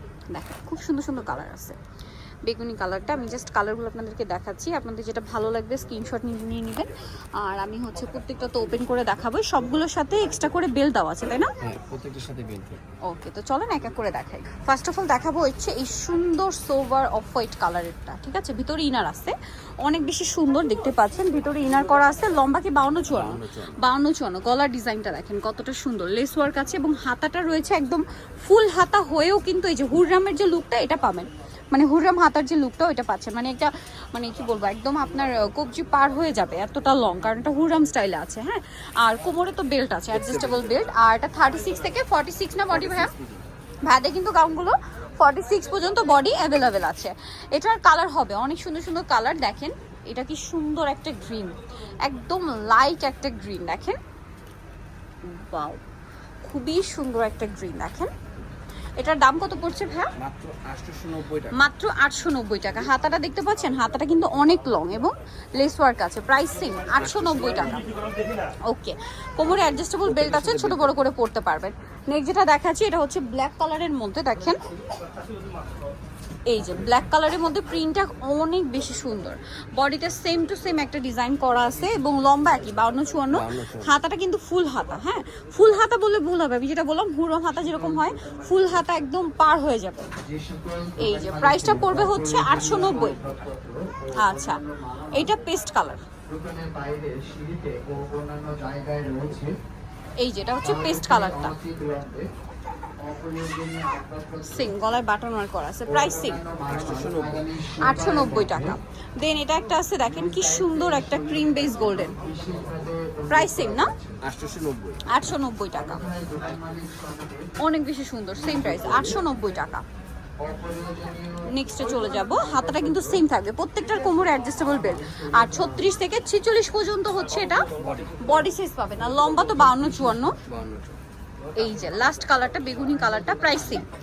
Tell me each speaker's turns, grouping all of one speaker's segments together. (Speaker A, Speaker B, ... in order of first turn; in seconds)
Speaker A: 0.3-1.8, 2.5-11.5, 13.1-43.1, 43.9-54.0, 55.2-55.8, 56.4-58.1, 59.0-60.1, 61.5-67.9, 68.7-74.6, 76.5-90.1, 91.0-93.2, 94.1-96.0, 100.2-101.6, 104.4-106.4, 107.8-112.2, 113.3-113.9, 115.1-116.1, 117.6-119.8, 121.4-130.4, 131.6-133.9
Speaker B: 11.6-12.8, 23.1-23.8, 40.1-40.7, 42.7-43.4, 60.2-61.6, 67.0-67.8, 70.0-71.0, 83.3-83.9, 106.7-107.5, 114.2-115.0, 127.8-128.3, 130.4-131.0
Speaker C: 88.0-88.3, 90.2-95.4, 96.3-99.6, 100.6-102.3, 103.0-104.7, 105.9-108.8, 110.0-114.2, 115.7-117.5, 118.4-119.2, 120.4-123.2, 124.5-125.8, 129.6-129.9